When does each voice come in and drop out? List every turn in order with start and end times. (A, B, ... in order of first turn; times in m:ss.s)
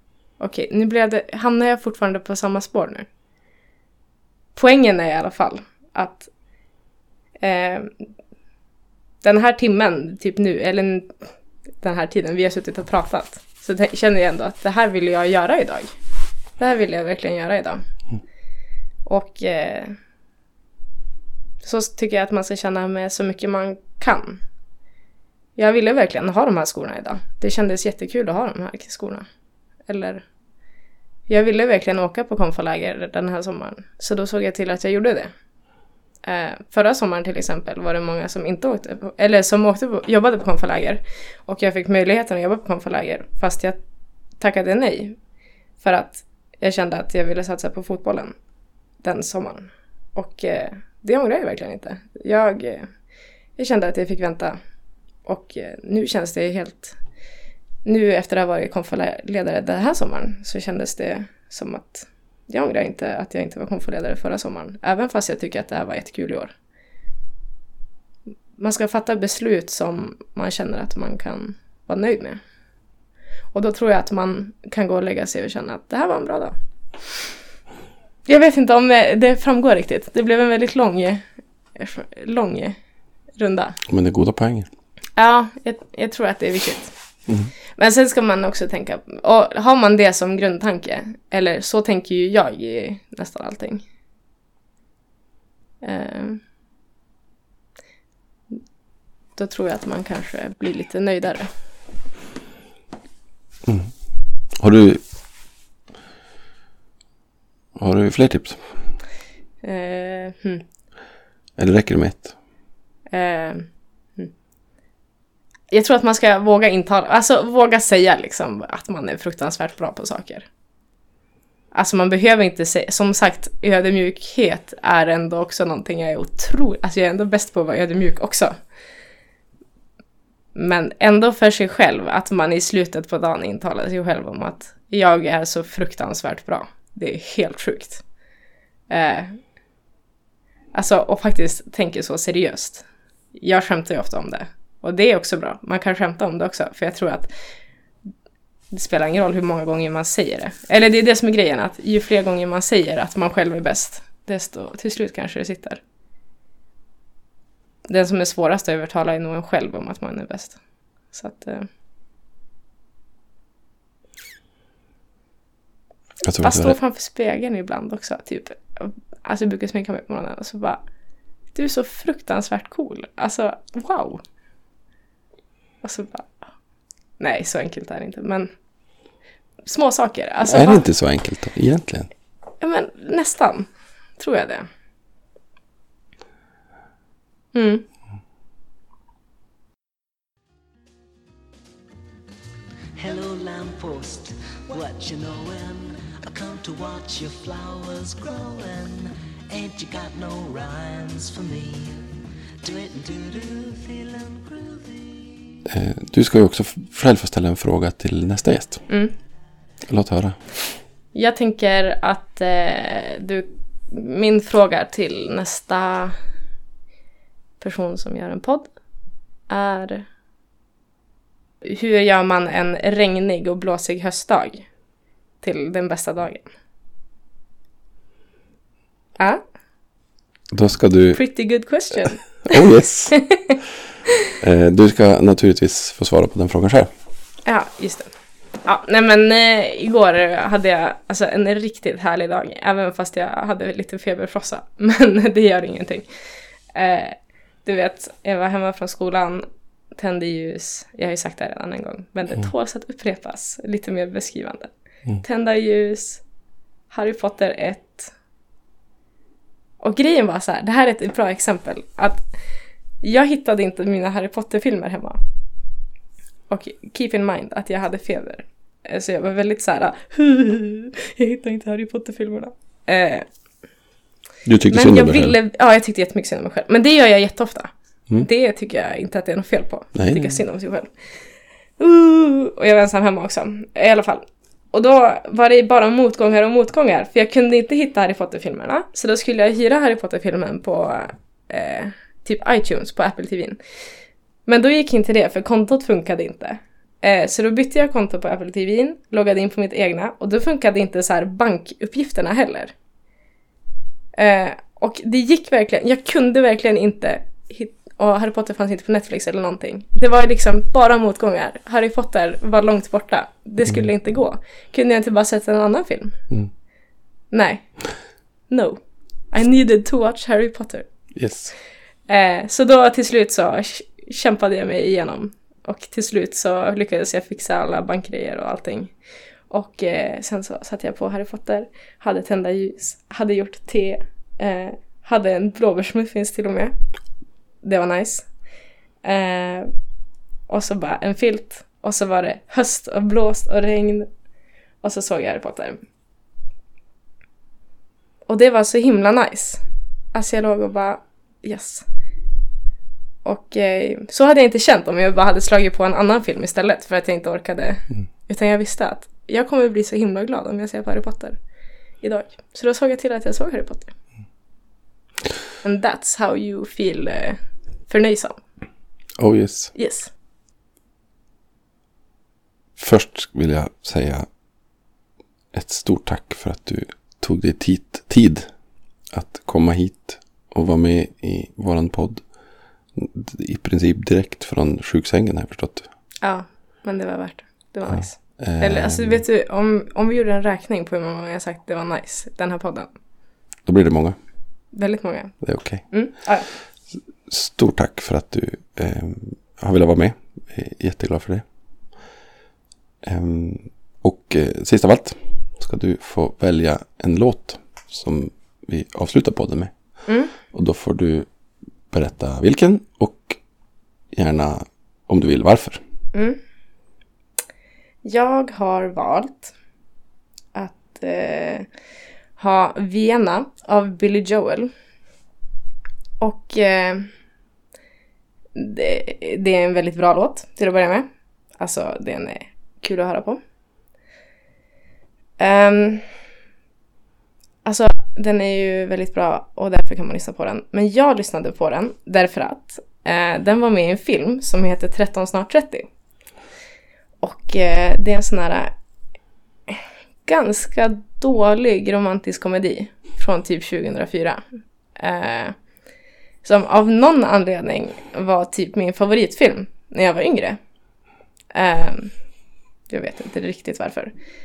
0:00.4-0:03.1 A
0:04.5-0:06.3 A
0:07.4-0:08.1 A
0:09.2-0:11.1 A
0:11.8-0:15.9 A
0:16.6-0:17.8 A
0:19.0-0:20.0 A
0:21.6-0:24.4 A
0:25.6-0:29.2 A
0:29.9-0:30.2 A
0:31.3-0:35.3 A
0:36.2-0:43.8 A
0:44.4-0:45.2 A
0:45.8-0:48.3 A
0:49.0-0:52.9 A
0:53.6-0:54.6 A
0:55.2-0:57.0 A
0:57.8-1:06.5 A
1:08.6-1:12.4 A
1:13.5-1:16.5 A
1:18.3-1:21.2 A
1:21.8-1:22.8 A
1:23.4-1:23.8 A
1:23.9-1:24.7 B
1:25.2-1:26.9 A
1:27.8-1:33.8 A
1:35.8-1:36.4 A
1:39.4-1:41.5 A
1:43.6-1:43.9 B
1:44.5-1:45.0 B
1:47.8-1:48.6 B
1:49.6-1:50.6 A
1:51.6-1:52.3 B
1:53.1-1:54.3 A
1:55.7-2:00.5 A
2:01.7-2:08.5 A
2:10.5-2:18.0 A
2:18.9-2:19.4 A
2:20.7-2:27.3 A
2:28.7-2:35.8 A
2:37.8-2:40.6 A
2:41.1-2:41.7 A
2:46.2-2:46.8 B
2:46.4-2:50.8 A
2:51.5-2:54.2 A
2:55.8-2:56.4 A
2:57.2-2:58.5 A
2:59.6-3:00.8 A
3:00.4-3:02.1 B
3:02.6-3:04.7 A
3:07.5-3:07.8 A
3:13.0-3:22.0 C
3:22.6-3:25.6 C
3:25.6-3:28.8 B
3:28.9-3:29.1 A
3:29.9-3:30.4 B
3:31.1-3:36.2 A
3:37.6-3:38.7 A
3:39.5-3:40.0 A
3:41.6-3:44.7 A
3:45.4-3:46.5 A
3:50.5-3:51.2 B
3:51.1-3:52.6 A
3:52.4-3:53.2 B
3:53.1-3:53.6 A
3:54.4-3:56.9 B
3:57.4-3:58.1 A
3:58.6-4:06.0 A
4:06.7-4:16.2 A
4:16.9-4:18.1 A
4:19.8-4:22.2 A
4:23.0-4:25.2 A
4:26.5-4:33.3 A
4:34.4-4:35.4 B
4:34.7-4:40.9 A
4:39.9-4:40.4 B
4:41.8-4:53.6 A
4:54.4-5:02.7 A
5:04.1-5:16.2 A
5:17.3-5:17.7 A
5:18.5-5:18.8 A
5:19.3-5:20.9 A
5:21.1-5:21.5 B
5:22.1-5:28.9 A
5:29.5-5:36.7 A
5:37.6-5:38.3 A
5:39.0-5:39.7 A
5:40.5-5:44.1 A
5:44.8-5:45.8 A
5:48.3-5:49.6 A
5:50.1-5:51.8 A
5:53.2-6:01.4 A
6:02.0-6:03.9 A
6:05.6-6:08.4 A
6:09.2-6:09.7 B
6:09.7-6:10.1 A
6:12.8-6:14.3 B
6:15.5-6:18.5 B
6:19.1-6:22.2 B
6:22.9-6:25.9 B
6:26.2-6:32.9 A
6:27.9-6:29.2 B
6:33.6-6:34.2 B
6:34.7-6:35.4 A
6:35.4-6:35.8 B
6:35.9-6:36.5 A
6:37.2-6:41.4 B
6:43.0-6:49.7 B
6:50.1-6:50.3 A
6:50.4-6:51.3 B
6:51.9-6:53.4 B
6:54.1-6:55.8 B
6:56.1-6:56.4 A
6:58.0-6:59.5 A
7:00.5-7:01.7 A
7:02.4-7:04.7 A
7:06.2-7:07.1 A
7:08.5-7:11.0 A
7:11.6-7:13.4 A
7:15.4-7:16.1 A
7:17.6-7:25.9 A
7:27.2-7:28.7 A
7:29.7-7:34.4 A
7:35.0-7:35.6 A
7:36.4-7:40.6 A
7:41.5-7:42.1 A
7:42.9-7:44.1 A